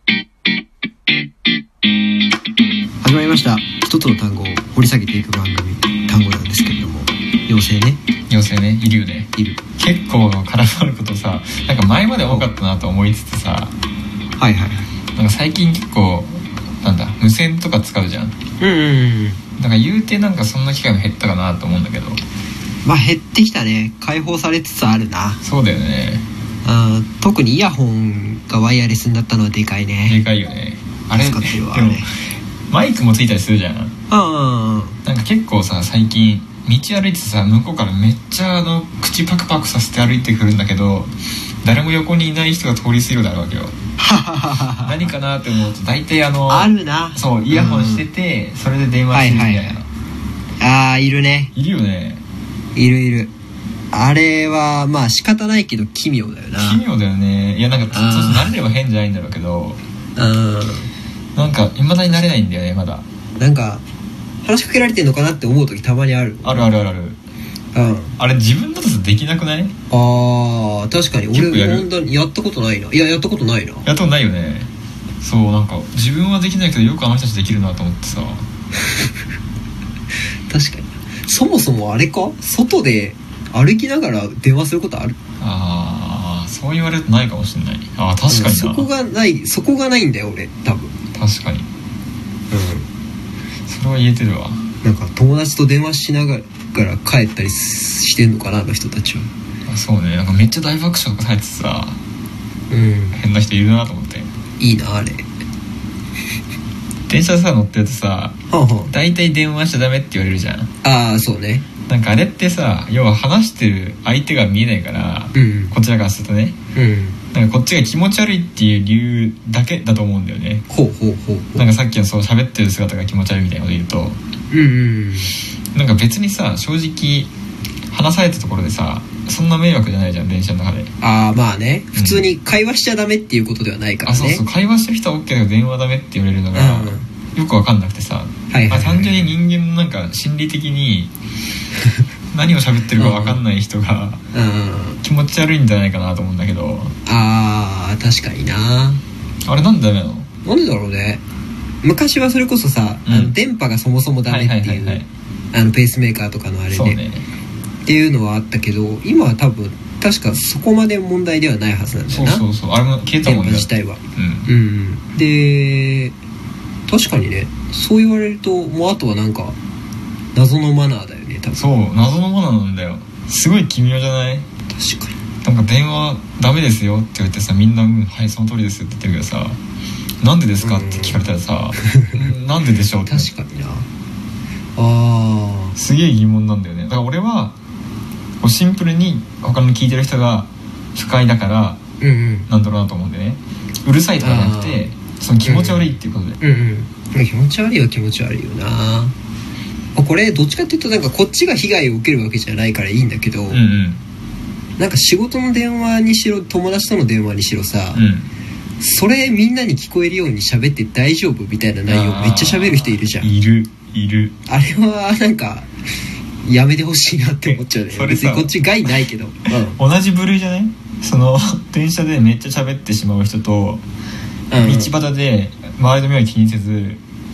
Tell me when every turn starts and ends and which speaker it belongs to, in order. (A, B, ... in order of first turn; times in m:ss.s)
0:03.0-0:08.0 A
0:08.3-0:13.7 B
0:14.4-0:14.9 A
0:15.2-0:18.4 B
0:18.6-0:19.4 A
0:19.6-0:22.2 B
0:22.8-0:25.4 A
0:25.4-0:26.2 B
0:26.6-0:30.2 A
0:30.0-0:32.1 B
0:31.1-0:32.1 A
0:32.7-0:33.9 B
0:34.1-0:35.0 A
0:35.0-0:41.1 B
0:41.6-0:43.7 B
0:44.0-0:44.9 A
0:44.8-0:49.9 B
0:46.5-0:48.1 A
0:49.1-0:49.8 A
0:50.6-0:51.5 A
0:51.6-0:52.2 B
0:52.8-0:53.3 A
0:53.9-0:56.8 A
0:56.6-0:59.8 B
0:57.9-0:58.5 A
1:00.2-1:00.9 A
1:01.4-1:03.0 B
1:03.4-1:03.8 A
1:04.4-1:06.7 A
1:06.4-1:07.2 B
1:07.8-1:08.2 A
1:08.2-1:09.7 B
1:09.9-1:13.9 A
1:11.3-1:11.9 B
1:13.8-1:14.7 B
1:15.2-1:18.4 B
1:20.5-1:25.2 A
1:25.4-1:28.9 B
1:28.3-1:30.9 A
1:31.1-1:31.7 B
1:32.5-1:32.9 A
1:33.7-1:34.6 B
1:34.8-1:39.3 A
1:39.7-1:42.0 B
1:42.7-1:43.2 A
1:43.1-1:44.3 B
1:44.6-1:45.2 A
1:47.1-1:48.3 B
1:48.5-1:48.9 A
1:48.9-1:50.7 B
1:50.8-1:51.7 A
1:51.9-1:56.6 B
1:55.3-1:55.7 A
1:56.8-1:57.2 A
1:57.3-2:00.6 B
2:00.7-2:01.7 A
2:01.6-2:04.2 B
2:04.5-2:05.3 A
2:05.7-2:07.3 B
2:07.9-2:10.9 B
2:11.0-2:14.4 A
2:12.0-2:12.3 B
2:14.1-2:21.1 B
2:16.5-2:17.1 A
2:18.5-2:19.3 A
2:22.3-2:24.2 B
2:23.0-2:23.4 A
2:24.3-2:25.0 A
2:25.0-2:26.9 B
2:27.1-2:29.0 A
2:29.5-2:30.3 B
2:30.4-2:31.2 A
2:31.8-2:37.0 A
2:33.1-2:33.3 B
2:34.3-2:35.1 B
2:36.7-2:37.3 B
2:37.9-2:42.4 A
2:42.1-2:44.5 B
2:43.2-2:46.2 A
2:46.9-2:49.6 A
2:50.4-2:51.6 A
2:51.6-2:54.5 B
2:54.7-2:55.2 A
2:55.4-2:59.6 B
3:00.2-3:03.3 B
3:00.6-3:01.2 A
3:01.8-3:02.1 A
3:03.1-3:03.9 A
3:04.8-3:05.8 A
3:05.8-3:07.6 B
3:08.4-3:11.8 B
3:12.0-3:12.5 A
3:12.5-3:16.4 B
3:14.2-3:14.8 A
3:15.4-3:19.1 A
3:20.0-3:23.6 A
3:23.5-3:24.0 B
3:24.8-3:28.0 A
3:28.0-3:28.3 B
3:28.8-3:33.3 A
3:31.9-3:34.4 B
3:34.5-3:35.7 A
3:36.4-3:39.8 A
3:37.5-3:38.5 B
3:39.7-3:43.8 B
3:44.5-3:44.9 A
3:44.6-3:47.0 B